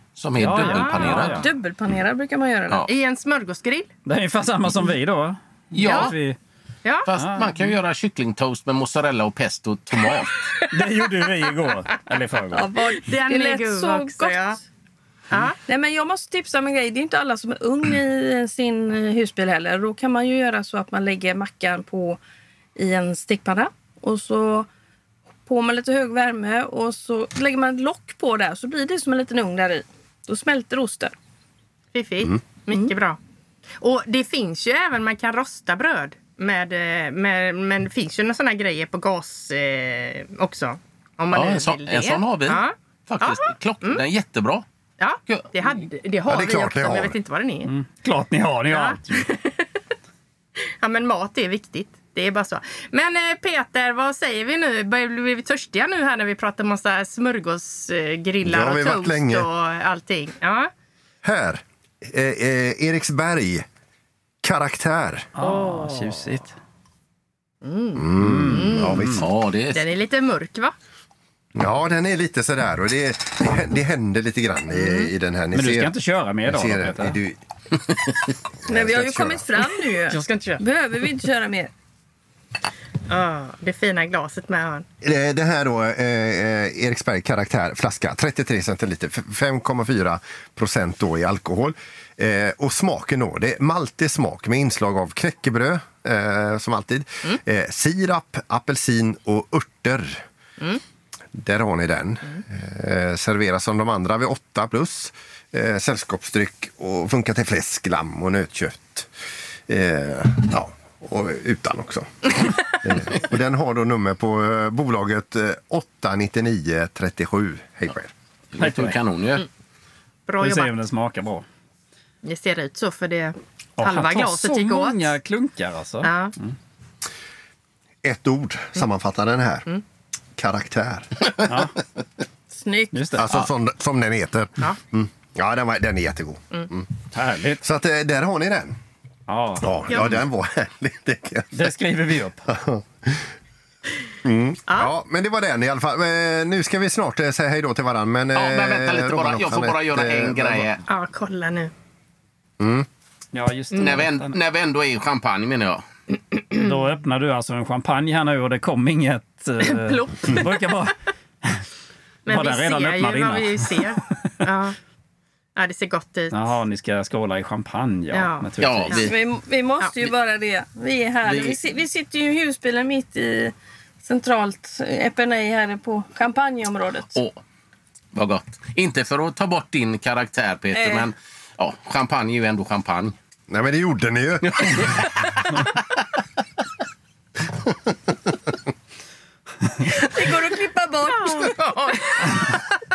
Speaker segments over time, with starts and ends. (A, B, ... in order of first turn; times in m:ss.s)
0:00.2-0:01.5 A
0:00.4-0:01.5 B
0:00.6-0:02.9 C
0:00.6-0:01.3 D
0:02.9-0:03.9 D
0:04.1-0:06.4 B
0:05.7-0:06.1 A
0:05.8-0:06.1 D
0:07.0-0:10.4 A
0:07.2-0:07.7 B
0:10.7-0:12.7 B
0:12.5-0:14.6 C
0:13.0-0:14.6 D
0:15.3-0:15.6 D
0:15.7-0:22.2 C
0:22.8-0:24.7 C
0:25.4-0:31.1 C
0:31.9-0:33.2 D
0:33.8-0:44.0 D
0:41.3-0:44.6 A
0:45.0-0:47.7 D
0:45.3-0:45.5 A
0:46.3-0:47.2 E
0:47.7-0:49.3 B
0:48.7-0:49.6 D
0:50.8-1:00.7 D
0:58.4-0:59.5 E
1:01.2-1:03.7 E
1:04.4-1:05.3 E
1:05.4-1:06.6 B
1:05.4-1:06.1 D
1:07.6-1:09.0 D
1:08.0-1:09.2 E
1:08.2-1:09.2 B
1:09.2-1:09.9 A
1:09.7-1:10.7 D
1:11.6-1:15.9 E
1:14.7-1:15.1 D
1:15.5-1:17.2 B
1:16.5-1:17.4 E
1:18.7-1:19.4 E
1:18.7-1:21.7 C
1:20.1-1:20.6 D
1:23.1-1:24.9 D
1:25.0-1:40.2 E
1:41.3-1:49.1 E
1:49.7-1:58.1 E
1:58.5-1:59.5 A
1:58.6-1:59.0 B
2:00.3-2:00.7 D
2:00.4-2:01.4 B
2:02.2-2:05.2 D
2:03.8-2:06.6 B
2:06.0-2:06.3 D
2:08.0-2:09.7 E
2:10.4-2:11.6 E
2:11.4-2:11.7 B
2:12.5-2:13.2 C
2:12.9-2:13.3 B
2:13.2-2:16.9 E
2:17.1-2:17.6 B
2:17.6-2:18.8 E
2:19.3-2:19.7 B
2:19.6-2:21.7 E
2:19.9-2:20.2 D
2:21.5-2:22.5 B
2:22.5-2:23.3 E
2:24.2-2:30.8 E
2:28.4-2:30.8 A
2:30.9-2:31.7 D
2:32.6-2:32.9 E
2:33.3-2:34.4 B
2:33.7-2:34.0 D
2:33.8-2:35.8 A
2:36.6-2:41.6 B
2:39.7-2:40.6 D
2:42.3-2:44.8 D
2:42.3-2:43.9 B
2:45.6-2:46.6 D
2:46.3-2:49.0 B
2:48.1-2:49.2 D
2:48.6-2:49.1 A
2:49.0-2:57.1 C
2:51.2-2:51.6 A
2:57.1-2:57.4 A
2:58.2-3:03.2 A
3:00.7-3:01.1 C
3:03.5-3:05.0 E
3:04.5-3:05.0 A
3:07.7-3:08.0 E
3:10.0-3:11.6 C
3:11.1-3:12.5 D